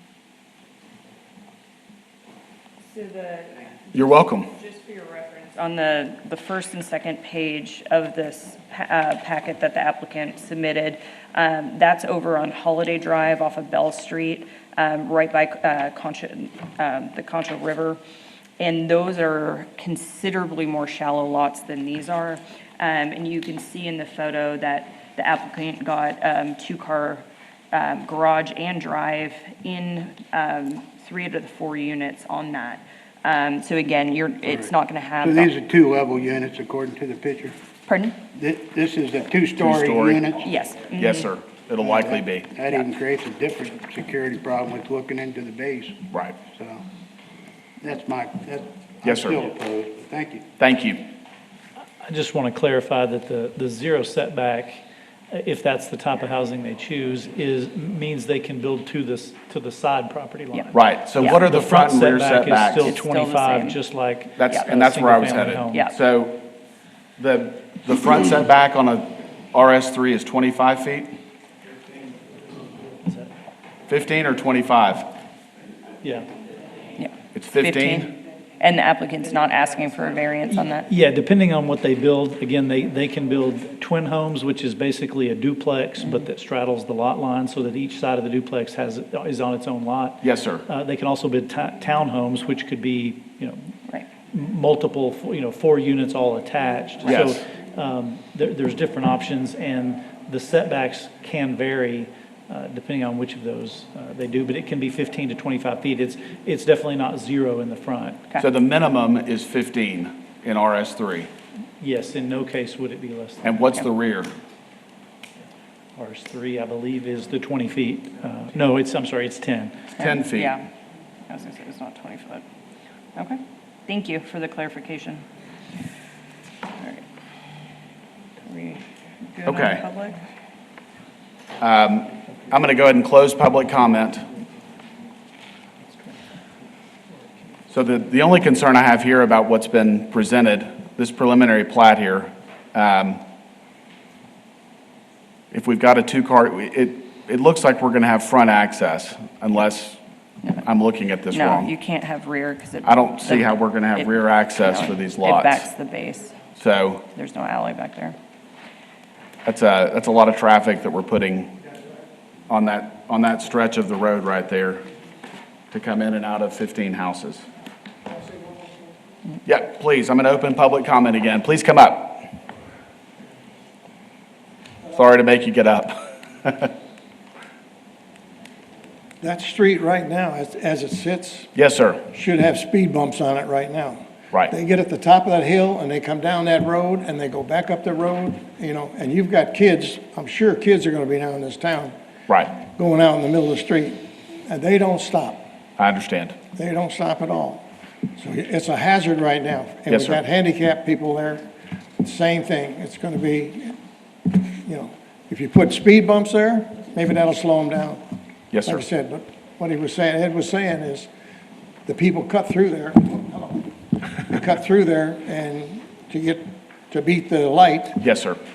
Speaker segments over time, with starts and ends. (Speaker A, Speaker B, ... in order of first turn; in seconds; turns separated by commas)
Speaker A: 2.9-18.0, Speaker B: 3.9-4.5, Speaker A: 18.6-35.5, Speaker C: 34.5-37.5, Speaker A: 37.9-38.2, Speaker C: 38.3-40.5, Speaker B: 39.6-40.3, Speaker A: 40.4-41.3, Speaker B: 41.0-42.5, Speaker C: 41.8-46.8, Speaker B: 46.1-46.4, Speaker C: 47.8-50.5, Speaker B: 49.0-49.4, Speaker B: 50.6-51.0, Speaker D: 52.0-65.8, Speaker A: 60.5-61.5, Speaker B: 60.7-62.9, Speaker A: 62.7-66.0, Speaker B: 64.4-66.4, Speaker B: 67.2-71.1, Speaker D: 73.0-73.3, Speaker B: 73.9-75.1, Speaker D: 76.0-76.3, Speaker A: 77.0-80.9, Speaker B: 77.3-78.1, Speaker D: 80.5-93.7, Speaker B: 90.2-90.6, Speaker D: 94.3-108.3, Speaker B: 97.0-97.4, Speaker B: 108.4-111.3, Speaker D: 111.8-113.6, Speaker B: 113.4-114.3, Speaker D: 116.0-119.8, Speaker B: 120.0-120.5, Speaker A: 120.0-120.6, Speaker A: 121.3-122.4, Speaker A: 123.2-125.2, Speaker A: 128.4-128.8, Speaker A: 129.3-130.2, Speaker B: 129.5-129.8, Speaker B: 131.6-134.2, Speaker B: 137.7-143.2, Speaker B: 145.5-150.0, Speaker B: 150.6-151.7, Speaker A: 151.3-156.5, Speaker B: 152.8-155.7, Speaker B: 156.6-157.1, Speaker A: 157.0-158.2, Speaker B: 159.4-161.6, Speaker B: 162.5-164.8, Speaker B: 165.7-167.4, Speaker E: 168.3-168.7, Speaker B: 169.4-172.3, Speaker B: 174.9-176.7, Speaker E: 179.2-181.5, Speaker B: 181.6-182.0, Speaker E: 182.1-191.9, Speaker E: 192.5-195.4, Speaker B: 195.8-196.4, Speaker E: 196.6-197.6, Speaker E: 198.2-201.5, Speaker B: 199.9-200.2, Speaker E: 202.0-203.8, Speaker E: 204.3-208.0, Speaker B: 208.5-208.8, Speaker E: 208.6-211.1, Speaker E: 211.9-218.0, Speaker B: 218.0-218.4